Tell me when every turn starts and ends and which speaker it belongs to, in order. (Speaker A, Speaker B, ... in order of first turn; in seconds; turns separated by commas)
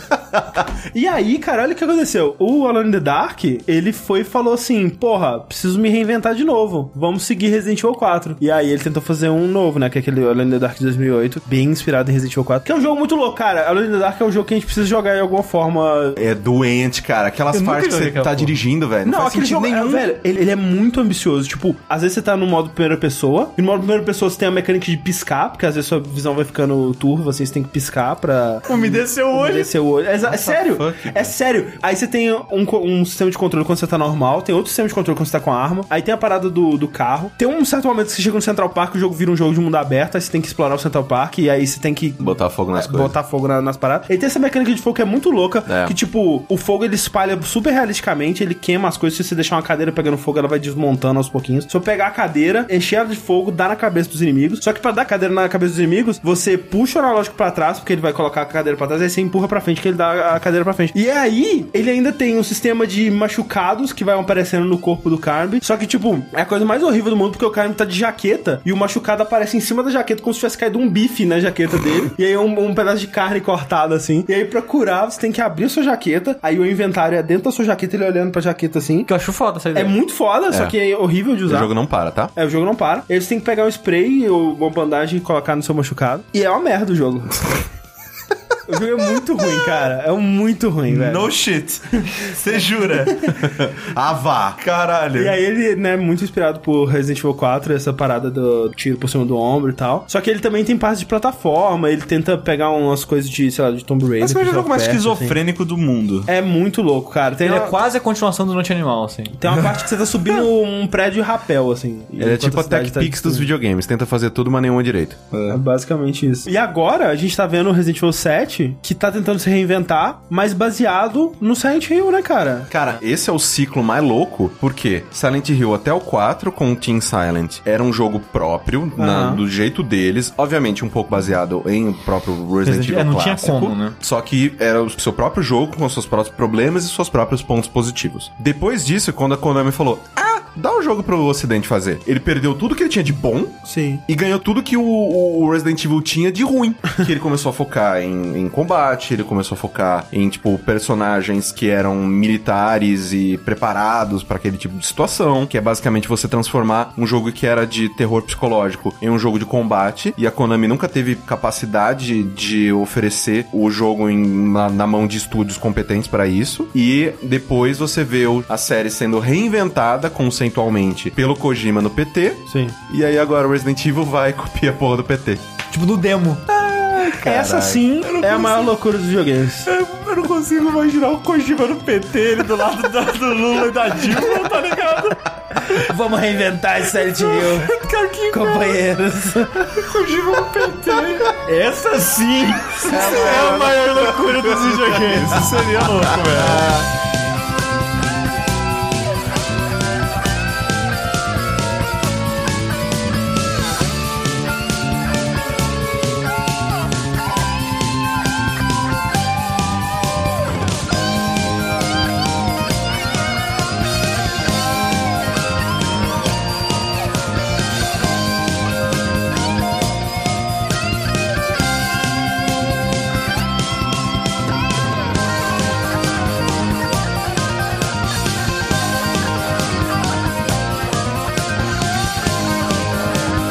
Speaker A: 0.8-16.2, Speaker B: 16.2-20.1, Speaker C: 17.5-18.6, Speaker A: 19.1-79.1, Speaker C: 28.7-29.7, Speaker B: 30.3-31.3, Speaker B: 42.2-43.1, Speaker B: 45.7-45.9, Speaker C: 79.1-79.9, Speaker A: 79.7-81.7, Speaker B: 81.5-82.3, Speaker A: 82.3-87.5, Speaker A: 88.7-91.3, Speaker D: 90.9-93.5, Speaker B: 93.4-94.6, Speaker D: 94.6-95.4, Speaker A: 95.2-105.4, Speaker D: 104.2-106.3, Speaker A: 106.3-107.8, Speaker C: 107.4-109.4, Speaker A: 109.4-113.5, Speaker B: 112.2-115.3, Speaker D: 115.3-115.6, Speaker A: 115.5-122.7, Speaker B: 122.7-175.5, Speaker A: 129.0-129.4, Speaker C: 132.6-133.9, Speaker A: 143.7-144.0, Speaker A: 172.5-172.8, Speaker C: 175.7-176.4, Speaker B: 176.5-177.8, Speaker A: 177.1-179.7, Speaker D: 178.0-178.7, Speaker D: 179.8-181.5, Speaker C: 180.0-185.2, Speaker A: 185.6-187.7, Speaker C: 187.2-188.8, Speaker A: 188.3-189.8, Speaker D: 189.8-191.3, Speaker C: 190.4-195.9, Speaker B: 192.8-196.9, Speaker D: 193.1-193.6, Speaker D: 194.9-196.7